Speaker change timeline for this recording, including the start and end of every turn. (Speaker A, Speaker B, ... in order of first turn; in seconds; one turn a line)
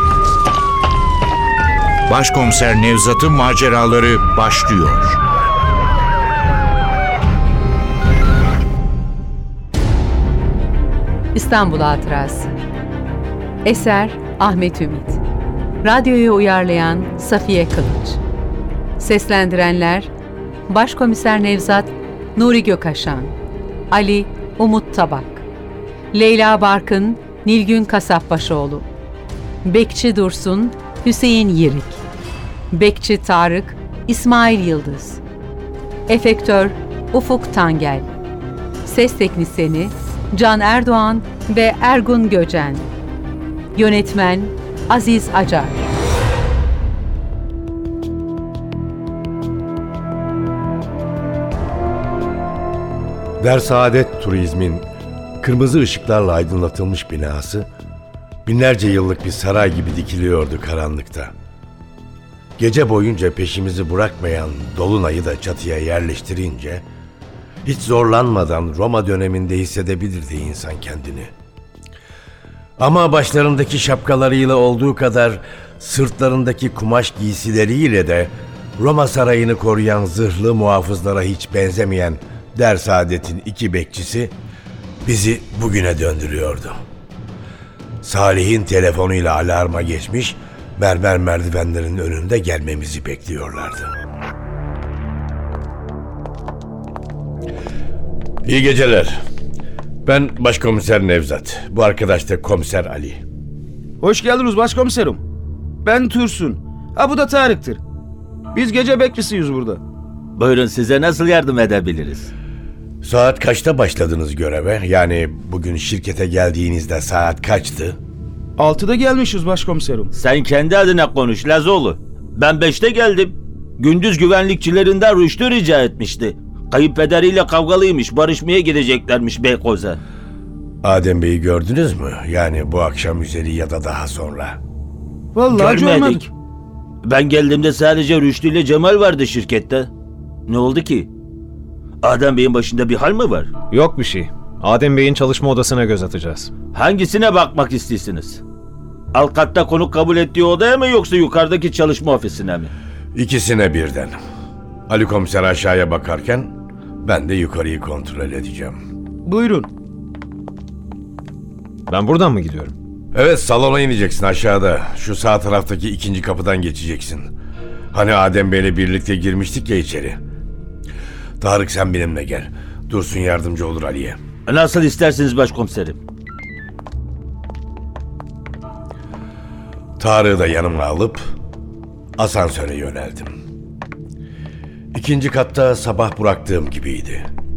Speaker A: 2.1-5.2
Speaker B: 11.3-12.5
Speaker B: 13.6-15.2
Speaker B: 15.8-18.2
Speaker B: 19.0-20.1
Speaker B: 20.7-23.3
Speaker B: 23.9-25.4
Speaker B: 26.1-28.9
Speaker B: 29.6-32.0
Speaker B: 32.7-35.2
Speaker B: 36.1-38.1
Speaker B: 38.8-42.9
Speaker B: 43.7-45.9
Speaker C: 53.4-54.9
Speaker C: 55.4-57.7
Speaker C: 58.5-61.3
Speaker C: 62.6-66.8
Speaker C: 67.6-71.3
Speaker C: 72.8-84.3
Speaker C: 85.0-86.8
Speaker C: 88.0-93.9
Speaker C: 98.4-99.2
Speaker C: 100.0-103.2
Speaker D: 104.0-105.2
Speaker D: 105.8-107.8
Speaker D: 108.5-109.8
Speaker E: 110.3-112.3
Speaker C: 113.0-118.0
Speaker D: 118.6-120.1
Speaker E: 120.1-130.0
Speaker C: 130.8-134.6
Speaker D: 135.3-136.3
Speaker E: 135.5-136.2
Speaker E: 137.0-139.9
Speaker E: 140.5-141.1
Speaker E: 142.0-143.5
Speaker F: 143.7-146.5
Speaker E: 146.7-148.4
Speaker E: 149.1-152.7
Speaker C: 153.1-154.2
Speaker C: 154.9-158.8
Speaker D: 159.2-159.7
Speaker F: 161.9-162.7
Speaker C: 163.1-167.3
Speaker C: 167.9-170.2
Speaker C: 171.4-174.2
Speaker E: 174.5-176.0
Speaker C: 180.0-181.2
Speaker C: 182.2-183.4
Speaker C: 184.9-187.3